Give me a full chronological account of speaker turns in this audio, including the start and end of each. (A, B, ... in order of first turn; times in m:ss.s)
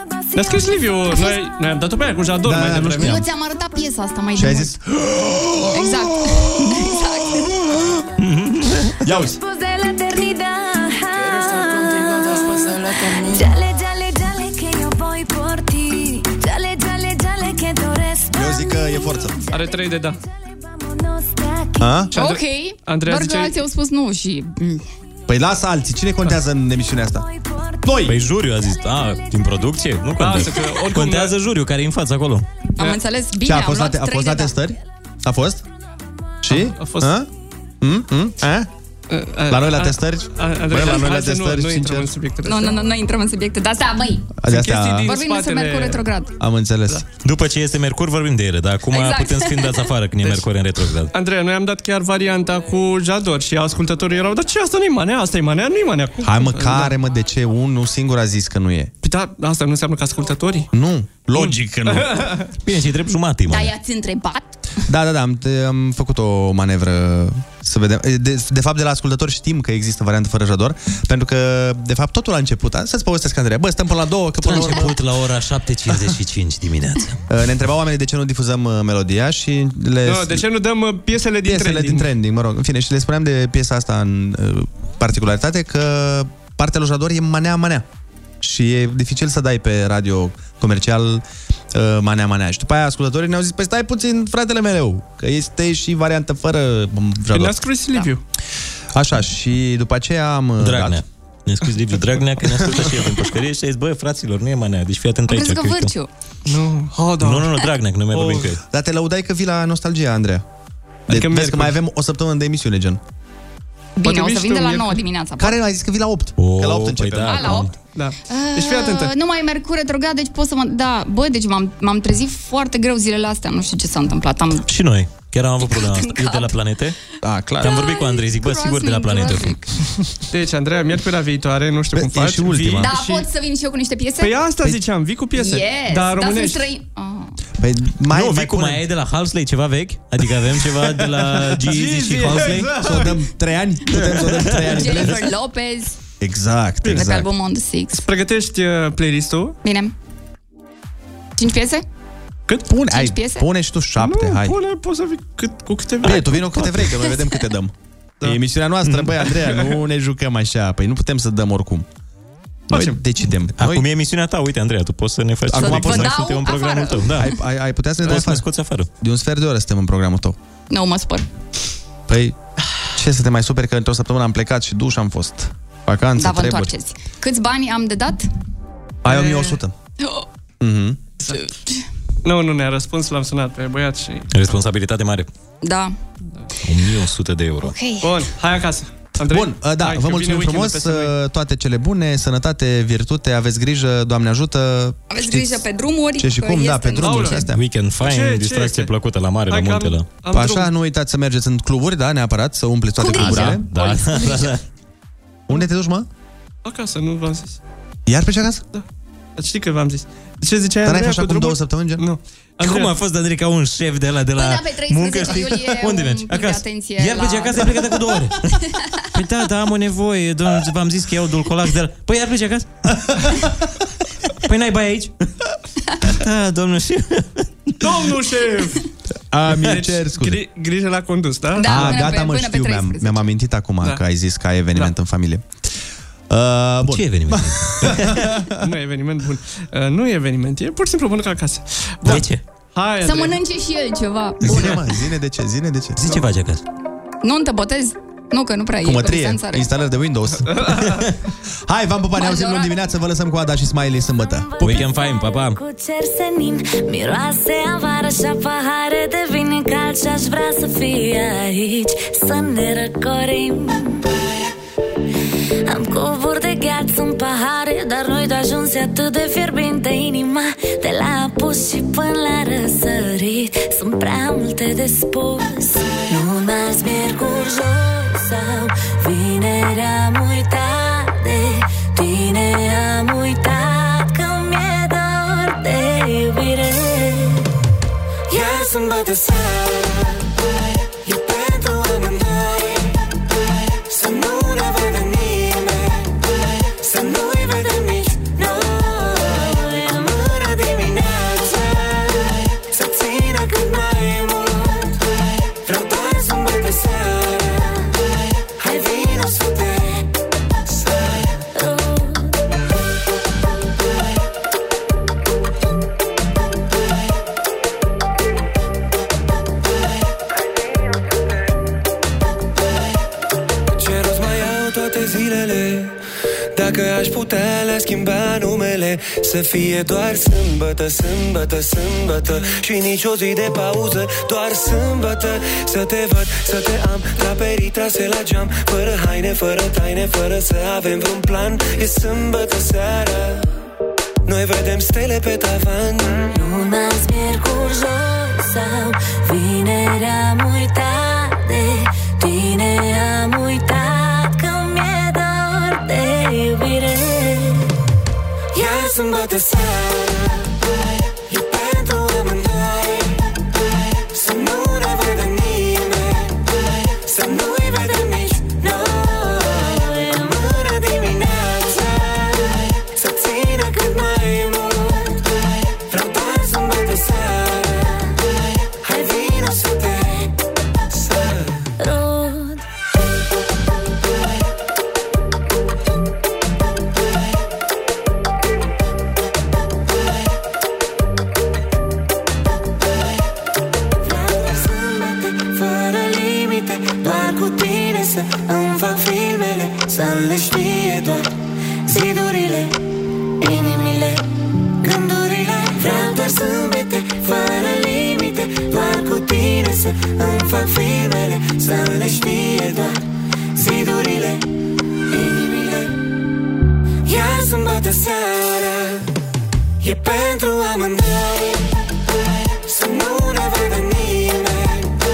0:00.3-0:00.6 A
0:00.3-0:03.2 B
0:01.1-0:01.4 C
0:02.4-0:03.2 D
0:03.0-0:04.7 C
0:04.4-0:06.9 D
0:05.7-0:07.5 C
0:08.2-0:09.0 E
0:09.0-0:09.4 D
0:09.4-0:19.8 A
0:18.3-0:19.4 D
0:19.5-0:20.2 B
0:20.5-0:21.9 A
0:21.8-0:22.1 D
0:22.1-0:23.5 B
0:22.1-0:24.8 C
0:25.3-0:27.3 D
0:27.4-0:27.8 A
0:27.8-0:28.2 D
0:28.0-0:32.4 E
0:30.2-0:31.3 B
0:32.8-0:34.5 C
0:33.4-0:35.6 D
0:36.4-0:37.3 D
0:36.5-0:37.2 B
0:37.8-0:38.7 D
0:39.1-0:42.8 B
0:39.5-0:42.1 D
0:42.4-0:44.3 C
0:44.4-0:45.2 D
0:44.5-0:46.0 B
0:45.0-0:46.3 C
0:46.4-0:47.0 D
0:47.2-0:51.1 E
0:48.9-0:49.9 C
0:51.1-0:56.9 B
0:56.2-0:58.9 D
0:59.0-1:00.7 B
1:00.7-1:02.3 D
1:01.3-1:02.5 B
1:02.6-1:03.7 E
1:03.5-1:04.4 C
1:04.9-1:15.0 D
1:14.4-1:17.2 E
1:17.3-1:20.4 D
1:20.0-1:22.1 B
1:21.4-1:27.8 D
1:28.4-1:37.6 D
1:37.3-1:38.2 B
1:38.9-1:41.0 D
1:40.6-1:45.9 E
1:42.6-1:42.9 D
1:45.3-1:46.1 C
1:46.4-1:47.6 B
1:47.2-1:48.6 E
1:48.1-1:48.5 B
1:48.6-1:50.4 D
1:51.1-1:51.8 B
1:51.1-1:53.0 D
1:54.0-1:55.6 C
1:54.0-1:55.0 B
1:55.4-1:57.7 D
1:56.4-1:57.7 E
1:57.3-1:57.7 C
1:57.9-1:59.1 B
1:58.3-2:04.7 C
2:04.6-2:07.0 E
2:05.6-2:06.5 C
2:07.2-2:07.7 D
2:07.6-2:09.6 E
2:07.6-2:09.6 C
2:10.3-2:13.2 B
2:11.9-2:12.9 D
2:12.8-2:14.4 C
2:14.2-2:16.7 B
2:15.4-2:17.4 C
2:17.6-2:18.8 D
2:18.1-2:22.8 E
2:20.8-2:21.2 D
2:21.7-2:23.1 B
2:22.5-2:25.2 D
2:23.9-2:25.1 E
2:24.7-2:25.9 C
2:26.2-2:27.3 D
2:26.8-2:27.2 B
2:27.0-2:28.0 C
2:27.9-2:29.6 B
2:29.6-2:29.9 C
2:31.4-2:31.8 C
2:32.6-2:34.6 D
2:32.9-2:33.5 C
2:34.0-2:36.9 B
2:36.0-2:41.9 D
2:38.8-2:39.1 E
2:39.4-2:39.7 B
2:42.7-2:43.0 B
2:42.7-2:43.9 D
2:43.6-2:47.3 E
2:45.5-2:46.1 D
2:45.5-2:46.2 B
2:45.6-2:47.1 C
2:47.0-2:48.4 D
2:48.0-2:48.9 E
2:49.0-2:50.4 D
2:50.7-2:51.2 C
2:52.1-2:52.4 D
2:52.9-2:56.7 D
2:56.2-2:58.3 C
2:59.0-2:59.7 D
2:59.1-2:59.4 B
2:59.4-3:00.2 C
3:00.6-3:01.0 D
3:01.2-3:01.5 B
3:01.3-3:01.8 C
3:02.2-3:04.4 B
3:04.3-3:05.3 E
3:05.6-3:05.9 C
3:06.6-3:07.8 E
3:08.0-3:11.1 B
3:09.2-3:15.6 D
3:15.1-3:17.4 C
3:16.2-3:17.6 D
3:16.9-3:17.4 B
3:17.5-3:20.1 E
3:18.0-3:18.9 B
3:19.5-3:20.7 B
3:20.3-3:23.7 D
3:23.0-3:24.5 C
3:23.1-3:24.6 E
3:25.5-3:26.1 D
3:26.6-3:27.6 B
3:28.1-3:28.6 D
3:29.4-3:32.9 B
3:30.8-3:32.1 D
3:32.6-3:38.5 E
3:34.4-3:37.7 C
3:39.1-3:43.0 E
3:44.4-3:45.1 E
3:46.1-3:47.8 E
3:47.8-3:48.8 B
3:49.3-3:50.4 D
3:49.6-3:52.2 B
3:51.6-3:53.3 C
3:51.6-3:55.4 D
3:56.3-3:58.5 D
3:56.8-3:58.4 E
3:58.6-4:03.4 B
4:02.0-4:02.4 E
4:03.0-4:04.7 C
4:04.4-4:06.0 D
4:06.0-4:06.6 E
4:07.2-4:09.7 C
4:08.8-4:11.1 D
4:10.5-4:11.1 B
4:11.6-4:14.6 D
4:12.2-4:12.7 C
4:14.4-4:24.3 F
4:14.6-4:15.6 E
4:25.7-4:47.5 F
4:48.3-4:50.1 G
4:51.0-4:52.9 F
4:52.0-4:52.6 G
4:54.0-4:56.1 F
4:54.1-4:54.6 G
4:56.8-5:05.0 F
5:05.6-5:08.0 F
5:08.6-5:10.0 F
5:11.4-5:12.4 F
5:23.7-5:26.0 G
5:26.5-5:43.5 G
5:44.2-5:46.3 G
5:46.3-5:57.7 F
5:58.6-6:00.4 F
5:58.8-5:59.9 G
6:01.3-6:03.2 F
6:04.2-6:06.4 F
6:07.0-6:15.2 F
6:15.9-6:18.1 F
6:18.8-6:20.3 F
6:21.2-6:21.4 G
6:21.8-6:22.6 F
6:34.0-6:41.3 F
6:41.9-6:42.8 F
6:43.4-6:44.2 F
6:44.8-6:53.0 F
6:53.6-6:54.4 F
6:55.1-6:55.9 F
6:57.1-6:58.0 F
6:57.3-6:58.7 G
6:59.8-7:01.7 F
7:02.8-7:04.8 F
7:02.8-7:04.0 G